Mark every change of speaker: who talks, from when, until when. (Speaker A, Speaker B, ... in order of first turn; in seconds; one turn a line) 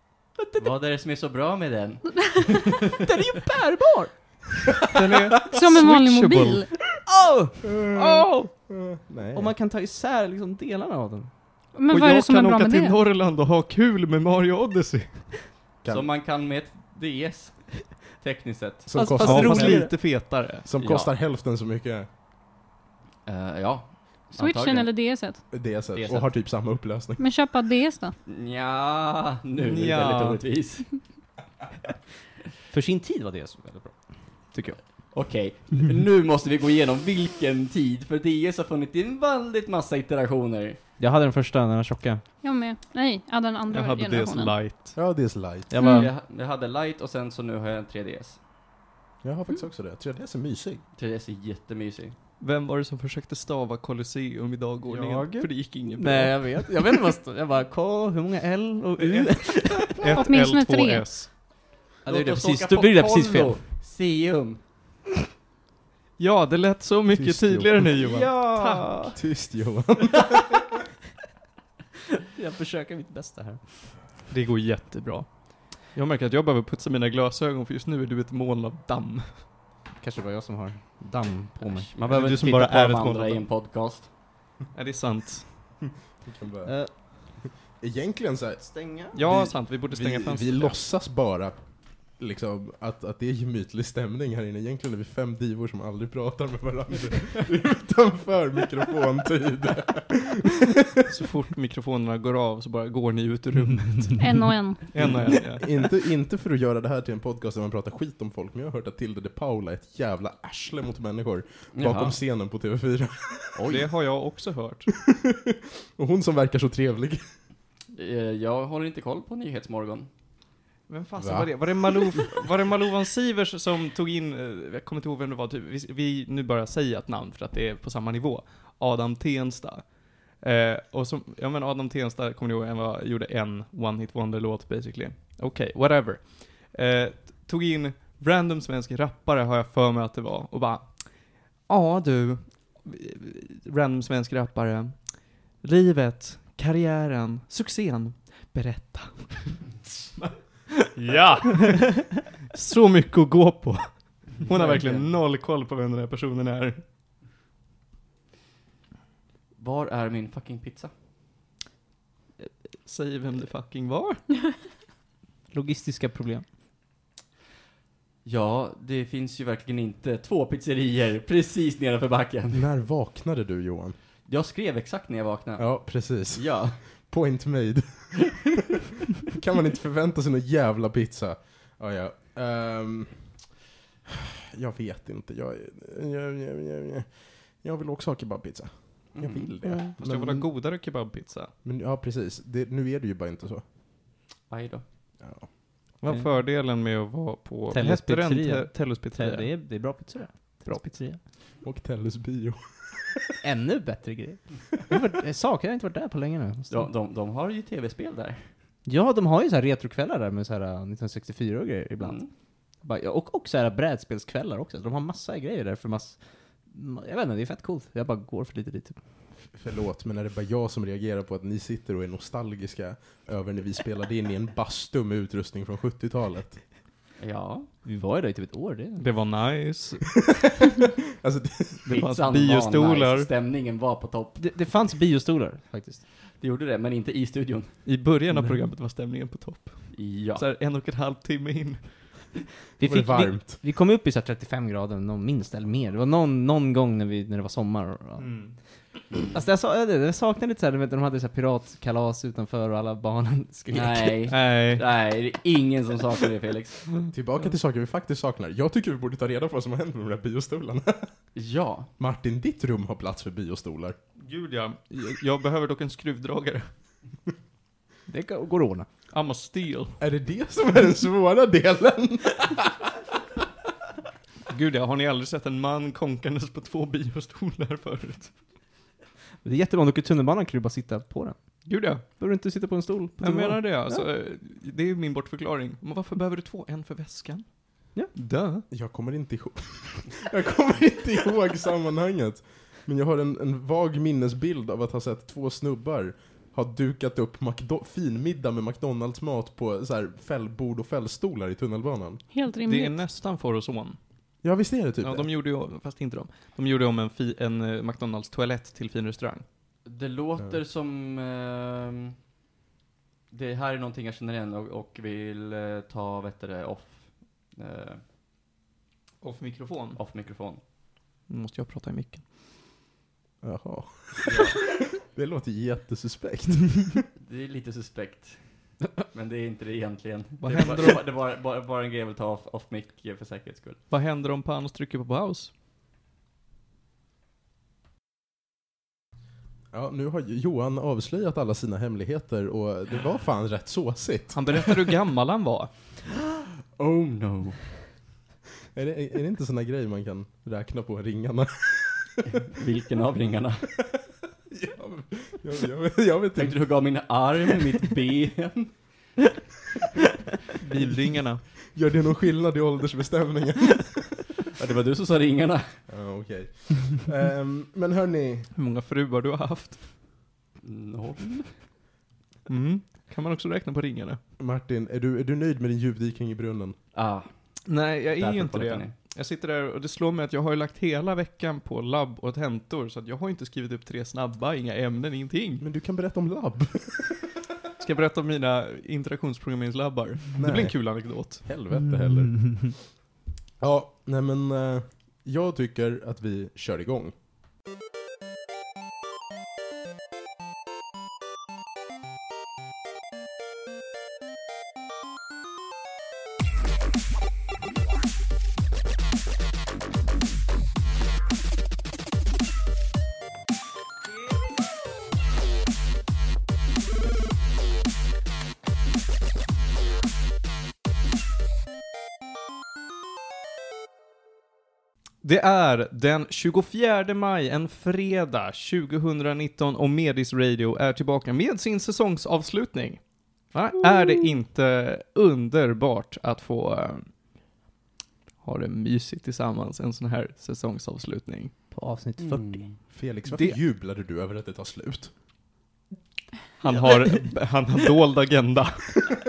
Speaker A: 0.4-0.7
Speaker B: 0.6-2.7
Speaker A: 3.0-4.7
Speaker C: 4.9-6.7
Speaker D: 5.5-7.0
Speaker A: 7.0-8.5
Speaker E: 7.6-9.5
Speaker A: 9.3-11.3
Speaker D: 11.7-13.0
Speaker C: 11.9-15.5
Speaker B: 15.9-18.9
Speaker E: 18.9-20.1
Speaker A: 18.9-19.9
Speaker C: 19.2-20.7
Speaker E: 20.6-22.1
Speaker B: 20.8-21.1
Speaker B: 23.3-25.0
Speaker D: 24.4-25.5
Speaker E: 25.5-27.2
Speaker B: 25.9-26.4
Speaker D: 27.2-28.1
Speaker B: 28.3-30.9
Speaker C: 29.6-30.4
Speaker A: 32.7-35.1
Speaker B: 35.1-40.8
Speaker A: 41.0-42.2
Speaker D: 42.4-44.6
Speaker C: 43.7-45.0
Speaker E: 45.0-45.7
Speaker A: 45.7-46.1
Speaker D: 45.8-46.1
Speaker B: 45.9-48.4
Speaker E: 49.2-50.8
Speaker B: 51.0-52.1
Speaker C: 52.4-56.7
Speaker A: 54.9-60.1
Speaker C: 59.0-61.3
Speaker D: 60.1-61.3
Speaker B: 62.0-64.6
Speaker A: 62.1-63.6
Speaker C: 66.2-69.1
Speaker E: 67.1-67.9
Speaker A: 68.0-69.2
Speaker E: 69.2-70.6
Speaker A: 72.3-73.9
Speaker C: 74.3-79.5
Speaker A: 80.0-81.9
Speaker B: 81.6-84.1
Speaker C: 82.1-83.5
Speaker C: 84.7-85.7
Speaker E: 86.2-101.1
Speaker A: 86.7-86.9
Speaker A: 88.6-89.2
Speaker C: 89.1-90.8
Speaker C: 101.1-104.3
Speaker D: 104.2-105.2
Speaker C: 104.9-105.7
Speaker B: 105.0-105.3
Speaker E: 105.4-113.7
Speaker B: 111.7-112.2
Speaker B: 113.5-113.8
Speaker C: 113.7-114.9
Speaker E: 115.0-117.2
Speaker B: 117.9-120.1
Speaker C: 120.9-156.8
Speaker E: 121.2-121.7
Speaker B: 154.5-155.1
Speaker B: 159.6-160.9
Speaker C: 162.8-164.3
Speaker A: 165.5-166.4
Speaker B: 168.2-172.6
Speaker E: 172.5-174.0
Speaker B: 174.3-176.8
Speaker E: 175.6-178.5
Speaker E: 179.3-183.5
Speaker E: 184.1-190.5
Speaker B: 189.2-189.5
Speaker A: 189.6-189.9
Speaker C: 190.0-191.5
Speaker E: 191.6-193.6
Speaker B: 194.5-194.8
Speaker E: 195.2-195.5
Speaker C: 196.0-199.5
Speaker A: 197.7-201.2
Speaker C: 200.7-201.0
Speaker E: 201.6-203.3
Speaker A: 203.4-206.9
Speaker B: 206.7-208.5
Speaker A: 208.8-212.2
Speaker B: 212.0-212.3
Speaker A: 212.8-219.0
Speaker E: 219.5-226.6
Speaker B: 227.2-227.7
Speaker A: 227.8-229.1
Speaker C: 229.0-230.1
Speaker E: 230.7-231.9
Speaker C: 231.8-233.3
Speaker B: 231.9-234.4
Speaker A: 234.4-236.0
Speaker B: 236.4-237.8
Speaker C: 237.8-242.4
Speaker A: 238.3-238.6
Speaker B: 239.9-240.4
Speaker A: 242.8-248.3
Speaker E: 242.8-243.6
Speaker C: 248.2-248.6
Speaker A: 249.3-254.3
Speaker B: 253.7-257.1
Speaker C: 254.3-254.9
Speaker E: 257.1-261.2
Speaker B: 261.4-261.9
Speaker E: 262.0-264.0
Speaker C: 264.2-266.7
Speaker A: 268.1-268.9
Speaker C: 269.1-270.0
Speaker E: 270.0-272.9
Speaker C: 274.5-278.4
Speaker A: 279.4-284.1
Speaker C: 281.6-282.2
Speaker C: 283.2-287.4
Speaker C: 288.1-288.6
Speaker E: 288.7-302.2
Speaker D: 302.3-303.0
Speaker C: 302.6-304.0
Speaker E: 304.4-305.3
Speaker C: 305.0-309.4
Speaker B: 309.9-312.1
Speaker B: 313.3-318.0
Speaker C: 319.2-320.0
Speaker B: 320.0-320.6
Speaker C: 321.3-322.3
Speaker E: 323.4-327.1
Speaker B: 324.3-324.6
Speaker B: 327.2-333.8
Speaker C: 330.4-331.0
Speaker C: 333.9-335.5
Speaker E: 339.7-344.8
Speaker C: 344.3-345.7
Speaker B: 346.8-347.9
Speaker E: 348.7-352.3
Speaker B: 352.5-353.7
Speaker E: 354.5-356.6
Speaker B: 356.4-359.2
Speaker C: 360.6-361.5
Speaker E: 361.7-364.2
Speaker B: 364.6-365.8
Speaker E: 365.9-368.5
Speaker C: 368.6-369.9
Speaker B: 370.6-371.6
Speaker C: 372.5-374.2
Speaker E: 374.4-376.8
Speaker B: 376.9-377.3
Speaker C: 377.7-385.6
Speaker B: 378.2-378.9
Speaker E: 385.6-387.3
Speaker C: 387.8-391.6
Speaker E: 390.4-392.8
Speaker A: 392.3-392.6
Speaker E: 393.6-397.1
Speaker C: 425.2-437.1
Speaker C: 438.4-441.5
Speaker A: 441.7-442.6
Speaker B: 442.2-442.8
Speaker E: 442.9-445.1
Speaker C: 443.3-443.6
Speaker C: 446.6-449.2
Speaker B: 446.7-447.1